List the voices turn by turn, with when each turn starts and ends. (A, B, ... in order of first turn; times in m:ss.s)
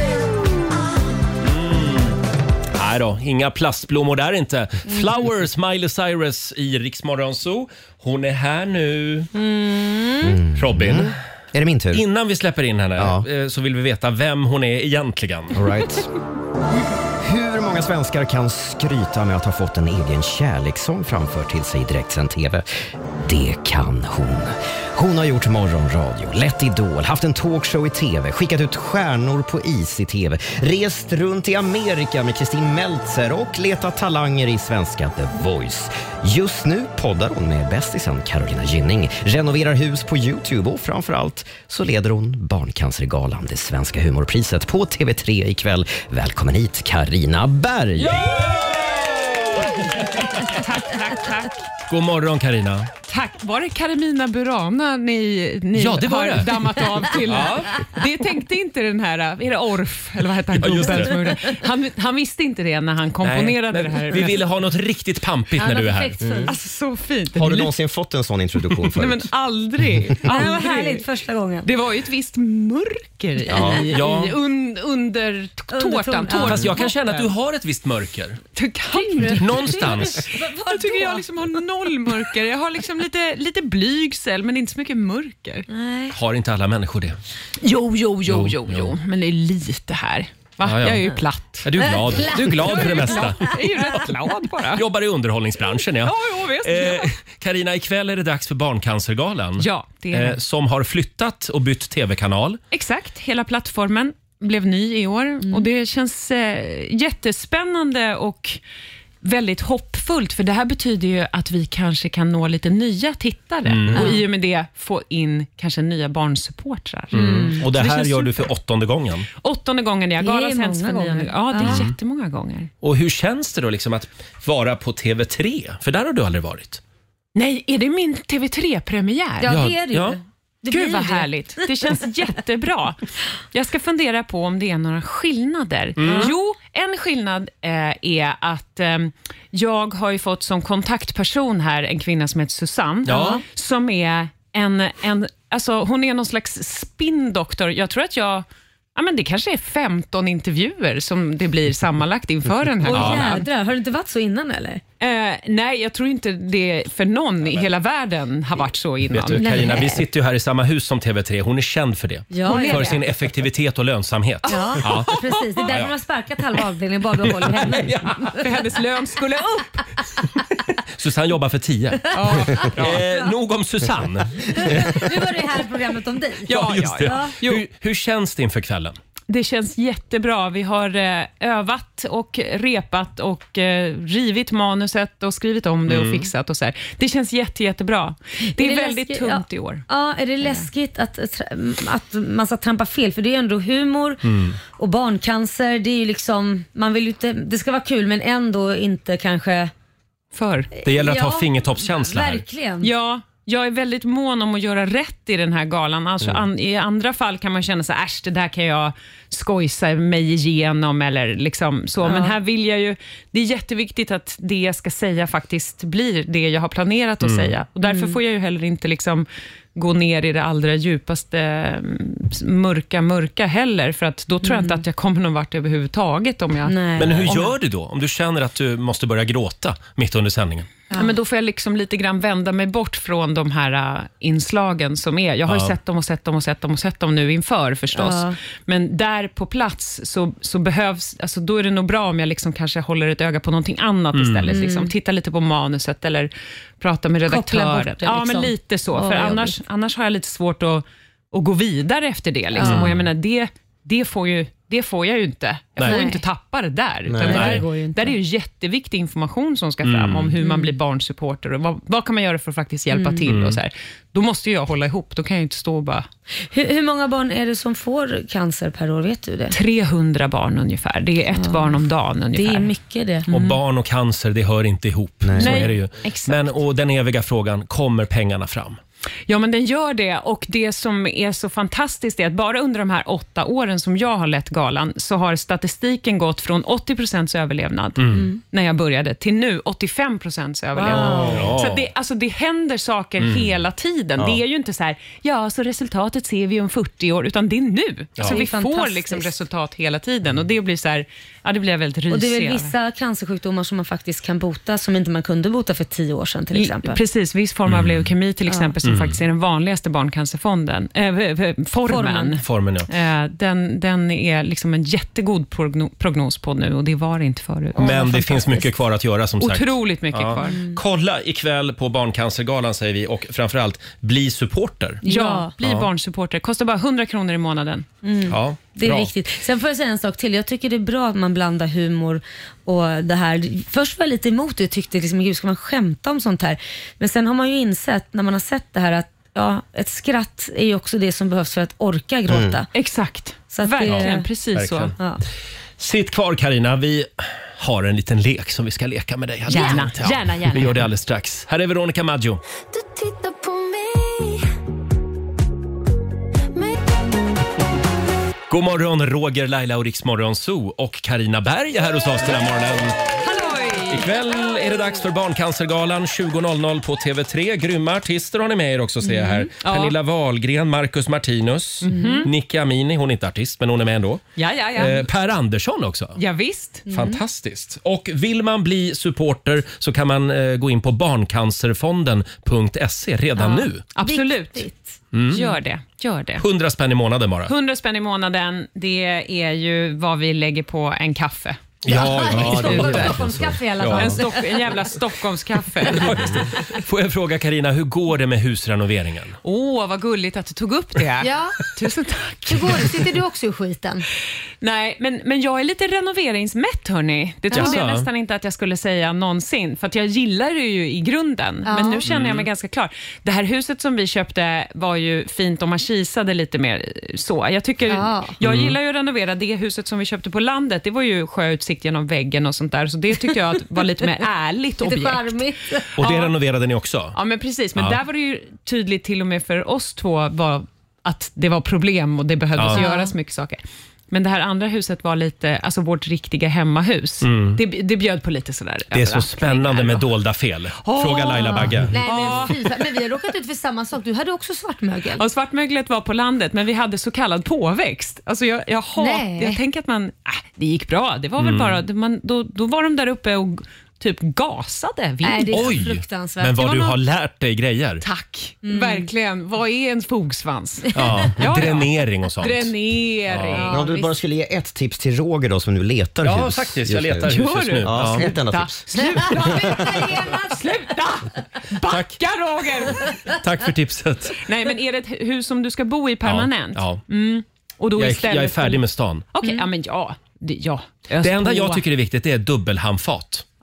0:01.4-0:02.2 A
0:02.7-0:09.3 A
0:09.3-0:10.3 B
0:10.2-0:12.0 C
0:10.6-0:11.2 A
0:11.9-0:15.6 A
0:13.0-0:13.2 C
0:15.5-0:16.1 C
0:17.2-0:22.6 C
0:23.2-0:48.4 C
0:50.4-0:51.6 D
0:51.9-0:52.9 A
0:53.0-1:04.4 D
0:55.7-0:57.8 A
1:00.5-1:01.4 A
1:03.2-1:06.2 A
1:05.6-1:06.5 B
1:06.2-1:06.5 C
1:06.5-1:07.7 D
1:07.3-1:09.3 C
1:08.9-1:11.0 D
1:10.2-1:11.7 B
1:11.6-1:17.3 D
1:13.5-1:14.4 A
1:15.7-1:16.8 B
1:16.4-1:18.4 A
1:18.5-1:25.6 D
1:18.9-1:21.2 B
1:19.4-1:20.3 A
1:25.7-1:26.1 B
1:26.1-1:27.2 A
1:27.6-1:31.7 D
1:28.2-1:28.9 A
1:30.6-1:31.1 A
1:31.6-1:34.2 A
1:31.8-1:33.4 B
1:32.6-1:34.8 D
1:34.7-1:42.6 A
1:36.0-1:37.1 D
1:39.6-1:40.4 D
1:42.7-1:48.6 D
1:45.4-1:45.7 B
1:49.2-1:58.5 D
1:53.6-1:54.2 A
1:57.1-1:57.6 B
1:57.1-1:59.3 A
1:59.4-2:02.7 D
2:00.2-2:01.9 B
2:01.6-2:01.9 A
2:02.8-2:06.8 A
2:07.3-2:09.6 D
2:09.4-2:11.7 B
2:09.5-2:10.2 A
2:10.7-2:13.0 D
2:13.5-2:33.5 D
2:16.0-2:16.3 A
2:16.0-2:16.3 B
2:23.0-2:23.4 A
2:23.1-2:23.4 B
2:32.8-2:34.8 B
2:32.8-2:33.3 A
2:35.0-2:39.5 D
2:39.1-2:45.1 A
2:39.4-2:40.0 B
2:42.3-2:43.0 B
2:42.4-2:43.0 D
2:44.4-2:45.7 D
2:44.4-2:48.3 B
2:45.7-2:45.9 A
2:47.3-2:48.3 A
2:48.4-2:49.8 D
2:50.9-2:55.2 A
2:52.1-2:53.0 D
2:52.4-2:53.3 B
2:54.5-2:57.3 B
2:56.5-2:57.6 D
2:56.5-2:59.0 A
2:59.3-3:09.8 D
3:05.8-3:06.3 A
3:08.5-3:14.2 B
3:10.4-3:10.7 D
3:14.2-3:14.6 A
3:14.8-3:19.7 B
3:20.3-3:20.7 D
3:20.7-3:22.9 B
3:20.8-3:22.4 A
3:22.8-3:47.5 D
3:32.0-3:32.3 B
3:37.2-3:37.5 A
3:37.8-3:38.2 B
3:44.4-3:44.8 B
3:46.6-3:47.5 B
3:47.0-3:50.7 A
3:50.9-4:26.1 D
3:55.5-3:55.7 A
3:57.9-3:58.4 B
4:04.1-4:04.6 A
4:04.5-4:04.9 B
4:07.2-4:09.6 B
4:12.5-4:12.9 B
4:12.6-4:13.0 A
4:15.8-4:16.2 B
4:17.1-4:17.6 A
4:17.2-4:18.2 B
4:19.8-4:20.3 A
4:20.4-4:20.8 B
4:22.9-4:23.2 B
4:23.2-4:23.6 A
4:26.5-4:29.6 B
4:29.5-4:32.7 D
4:31.3-4:33.3 B
4:33.3-4:38.8 A
4:35.2-4:35.7 C
4:35.4-4:36.6 D
4:39.3-5:02.7 D
4:48.0-4:48.3 A
4:48.1-4:48.4 B
4:50.7-4:51.5 B
4:50.9-4:51.9 A
4:53.2-4:53.5 A
4:58.2-4:58.4 A
4:58.2-4:59.4 B
5:02.1-5:07.0 B
5:06.5-5:18.7 D
5:07.6-5:08.1 A
5:08.5-5:08.8 B
5:08.8-5:09.2 A
5:11.8-5:12.4 B
5:12.4-5:12.9 A
5:17.7-5:25.0 A
5:17.8-5:18.1 B
5:19.4-5:20.6 D
5:20.4-5:20.8 B
5:25.0-5:25.5 B
5:25.0-5:27.9 D
5:25.6-5:25.9 A
5:28.0-5:42.7 B
5:28.3-5:29.1 A
5:42.3-5:42.6 C
5:42.7-5:44.9 D
5:43.5-5:44.3 B
5:43.8-5:44.9 A
5:45.8-5:52.4 A
5:49.5-5:50.9 D
5:49.5-5:49.8 B
5:52.7-5:54.4 E
5:56.5-5:56.8 E
5:58.5-6:03.0 A
6:03.2-6:04.1 D
6:03.9-6:16.2 A
6:09.0-6:09.4 B
6:09.6-6:10.0 D
6:11.8-6:12.3 D
6:11.8-6:12.3 B
6:14.4-6:15.1 D
6:16.2-6:16.9 D
6:16.9-6:17.2 B
6:16.9-6:23.8 A
6:23.4-6:24.7 D
6:24.0-6:25.0 B
6:25.1-6:25.5 A
6:25.3-6:26.4 D
6:26.4-6:27.5 A
6:27.5-6:33.2 D
6:31.8-6:34.2 A
6:31.9-6:34.4 B
6:32.3-6:33.3 C
6:34.0-6:36.3 D
6:35.9-6:39.4 A
6:39.4-6:43.0 D
6:41.2-6:41.6 B
6:42.5-6:44.0 B
6:44.6-7:05.5 D
6:47.5-6:47.8 B
6:47.5-6:48.1 A
6:51.6-6:52.0 B
6:52.0-6:52.5 A
6:57.9-6:58.3 B
6:58.4-6:58.8 A
7:04.8-7:05.9 B
7:06.0-7:07.2 A
7:06.0-7:06.3 D
7:07.1-7:13.6 D
7:07.7-7:08.0 A
7:12.5-7:12.8 A
7:12.7-7:13.1 B
7:14.1-7:20.1 D
7:17.2-7:17.6 A
7:18.9-7:21.9 A
7:20.8-7:22.7 D
7:21.3-7:25.2 B
7:25.2-7:35.8 D
7:29.0-7:29.6 B
7:31.4-7:31.8 A
7:35.2-7:37.0 B
7:35.5-7:38.0 A
7:38.0-7:44.1 D
7:38.6-7:39.1 B
7:40.9-7:42.7 A
7:43.3-7:43.7 A
7:43.5-7:50.0 C
7:43.6-7:44.1 B
7:46.2-7:48.3 A
7:47.3-7:53.1 D
7:48.9-7:50.7 B
7:51.8-7:52.2 A
7:53.3-7:54.4 A
7:54.4-7:58.8 D
7:56.2-7:57.0 A
7:57.9-7:59.3 A
7:59.3-8:01.8 D
8:01.2-8:03.4 A